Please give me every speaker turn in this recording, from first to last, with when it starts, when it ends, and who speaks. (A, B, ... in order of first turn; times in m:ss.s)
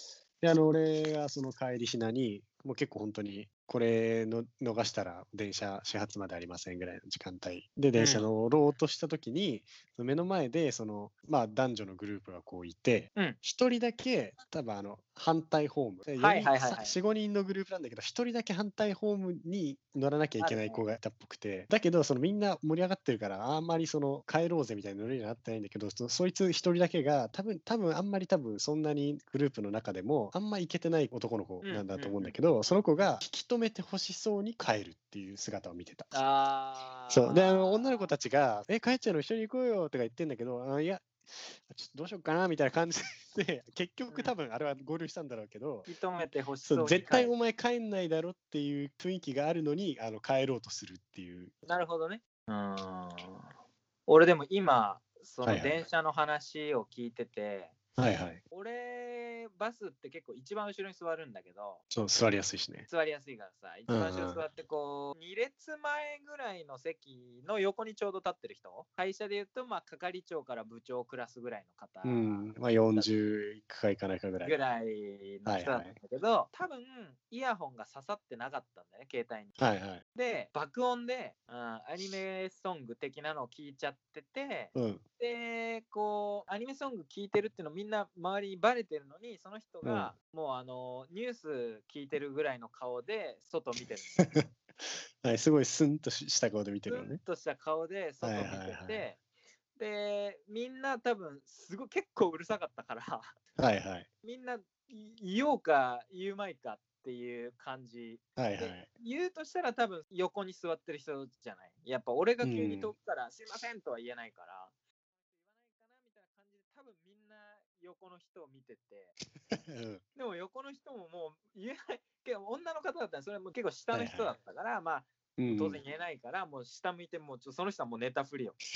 0:00.4-0:36.1 A
0:07.9-0:08.3 B
0:16.2-0:16.9 B
0:20.4-0:20.8 B
0:31.6-0:32.4 B
0:36.1-0:38.1 B
0:37.1-0:45.9 A
0:45.9-0:47.3 B
0:46.6-0:51.5 A
0:51.6-0:53.5 B
0:54.1-0:57.8 B
0:55.4-0:55.8 A
0:58.0-0:58.4 A
0:58.5-1:01.8 B
1:01.9-1:02.9 A
1:02.9-1:13.1 B
1:03.9-1:04.4 A
1:12.0-1:14.6 A
1:14.4-1:19.5 B
1:15.4-1:15.9 A
1:19.6-1:20.0 A
1:20.1-1:34.2 B
1:24.7-1:25.0 A
1:29.8-1:30.1 A
1:34.2-1:34.4 A
1:35.2-1:37.2 A
1:36.9-1:39.2 B
1:38.2-1:39.0 A
1:39.8-1:43.3 B
1:43.6-1:44.1 A
1:44.2-1:54.7 B
1:48.4-1:48.9 A
1:52.4-1:52.9 A
1:55.5-1:59.1 B
1:59.5-2:00.0 A
2:00.1-2:08.6 B
2:03.9-2:04.3 A
2:05.4-2:05.8 A